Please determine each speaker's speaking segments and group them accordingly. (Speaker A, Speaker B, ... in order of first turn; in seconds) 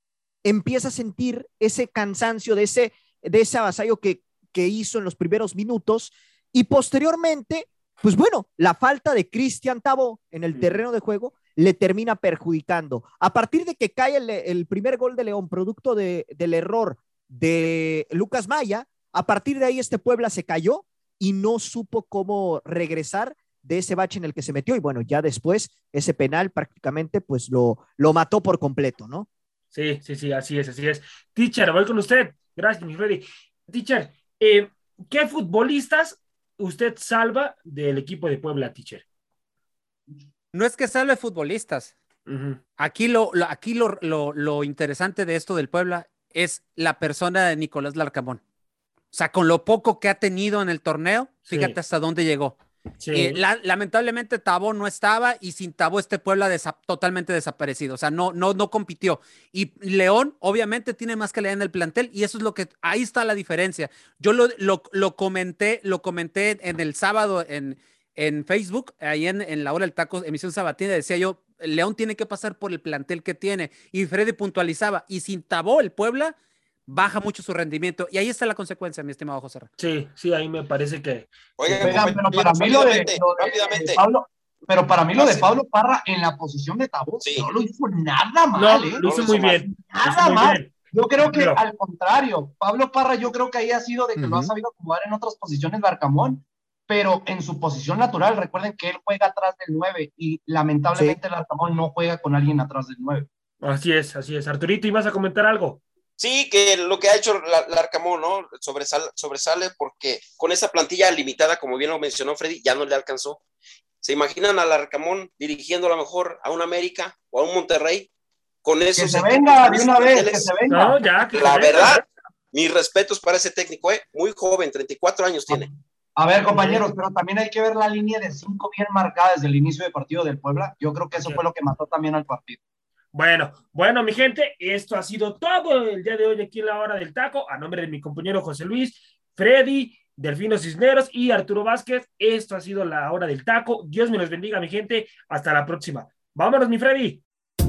Speaker A: 0.4-29.3, 94.2-94.5
Speaker B: 10.5-10.8, 29.7-39.0, 42.2-42.6, 51.5-51.7, 53.0-53.4, 79.8-82.1, 88.5-91.6, 103.6-105.8, 120.7-122.0, 126.5-126.9, 131.1-131.4, 133.1-147.2
Speaker C: 40.5-41.9, 42.8-48.4, 49.1-52.6, 53.1-76.3, 76.9-79.7
Speaker D: 81.6-84.0, 85.1-85.4, 87.2-87.5, 89.0-89.6, 106.2-113.4, 114.0-118.1, 118.6-120.6, 121.3-125.7
Speaker E: 81.8-89.0, 89.7-103.3, 119.0-121.0, 126.2-132.6